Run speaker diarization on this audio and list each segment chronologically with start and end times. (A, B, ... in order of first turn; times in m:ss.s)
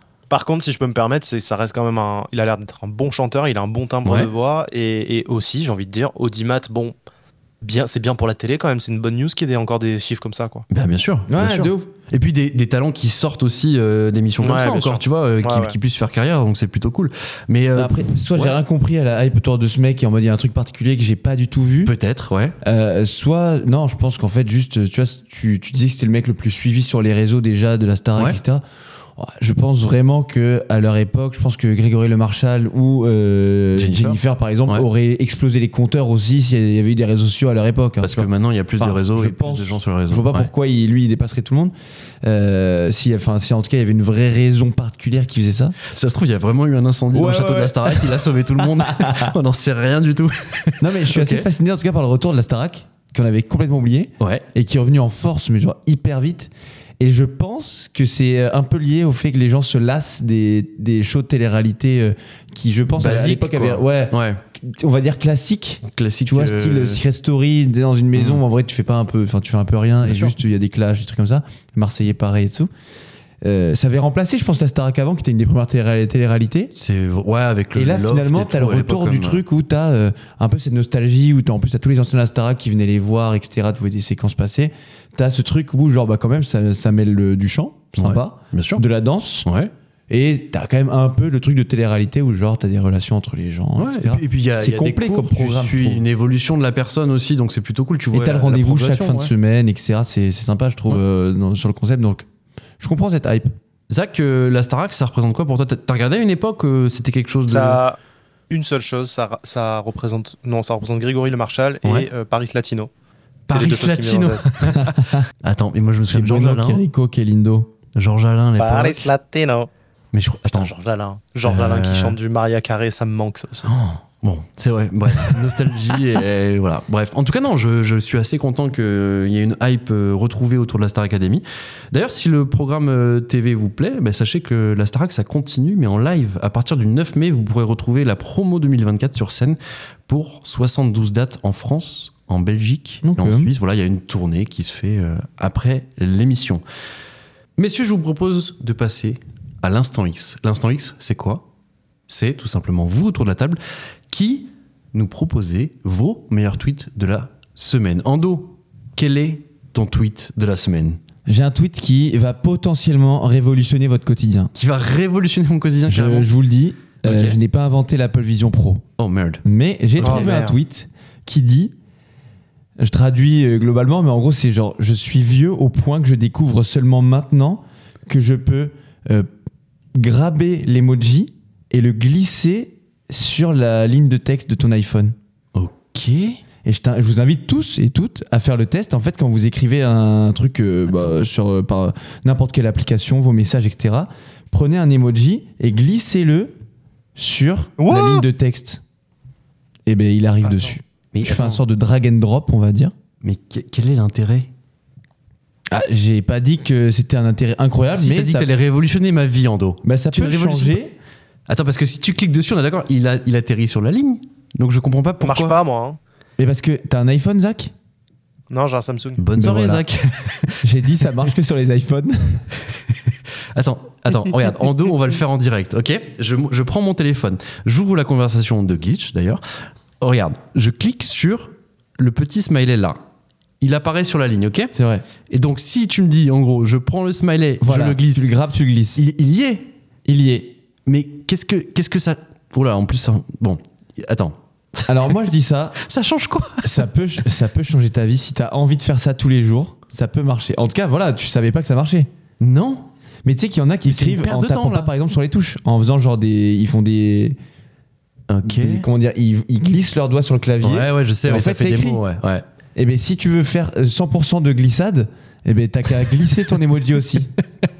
0:00.3-0:06.9 A
0:04.0-0:04.3 B
0:07.6-0:10.6 A
0:10.7-0:18.6 B
0:11.3-0:11.9 C
0:14.4-0:15.8 A
0:17.7-0:21.9 C
0:21.8-0:22.5 B
0:22.6-0:28.6 C
0:29.2-0:45.8 C
0:33.7-0:34.8 B
0:38.0-0:40.5 B
0:45.8-0:51.5 B
0:47.1-0:49.3 C
0:50.8-1:12.7 C
0:54.2-0:54.4 B
1:03.0-1:04.4 B
1:05.8-1:07.0 B
1:08.1-1:08.4 B
1:10.0-1:10.3 B
1:13.4-1:16.7 C
1:16.7-1:19.4 B
1:17.7-1:29.4 C
1:28.0-1:28.8 B
1:29.4-1:29.7 B
1:30.1-1:36.1 C
1:33.8-1:39.3 B
1:38.1-1:42.3 C
1:42.8-1:43.5 C
1:43.9-1:47.8 B
1:47.5-1:48.0 A
1:48.5-1:52.9 A
1:51.8-1:52.1 B
1:53.5-1:54.6 A
1:53.5-1:56.8 B
1:54.8-1:55.2 C
1:56.1-1:57.7 C
1:57.9-1:59.0 B
1:58.6-1:59.7 A
2:00.1-2:00.7 B
2:00.5-2:03.7 A
2:01.4-2:02.2 B
2:03.6-2:26.6 B
2:23.0-2:23.5 C
2:27.6-2:31.4 B
2:32.1-2:33.6 B
2:34.1-2:41.0 B
2:41.3-2:44.5 C
2:44.5-2:46.3 B
2:45.9-2:48.8 C
2:47.0-2:47.4 B
2:49.0-2:49.4 B
2:49.4-2:51.7 C
2:50.0-2:50.3 B
2:50.0-2:50.6 A
2:52.8-2:59.3 C
2:59.9-3:05.1 C
3:05.5-3:06.4 B
3:06.6-3:16.5 C
3:17.2-3:18.8 C
3:17.8-3:18.2 A
3:19.8-3:22.9 C
3:21.1-3:21.6 B
3:23.2-3:24.5 B
3:25.7-3:28.5 C
3:27.9-3:30.8 B
3:29.8-3:30.9 C
3:31.5-3:35.6 B
3:35.2-3:36.0 A
3:36.4-3:37.7 C
3:38.5-3:39.2 A
3:39.2-3:40.6 B
3:39.4-3:39.8 C
3:40.6-3:42.5 C
3:43.5-3:49.4 B
3:50.0-3:53.0 B
3:53.6-3:54.7 B
3:54.7-3:55.0 C
3:55.3-3:58.3 B
3:57.6-3:59.0 C
3:59.0-3:59.7 B
4:00.0-4:00.6 C
4:00.8-4:05.1 B
4:04.9-4:05.8 C
4:05.8-4:06.9 B
4:06.6-4:12.1 C
4:12.4-4:12.9 B
4:13.2-4:17.4 C
4:13.8-4:14.9 B
4:18.3-4:18.8 B
4:18.4-4:22.0 C
4:20.6-4:22.4 B
4:22.7-4:27.3 C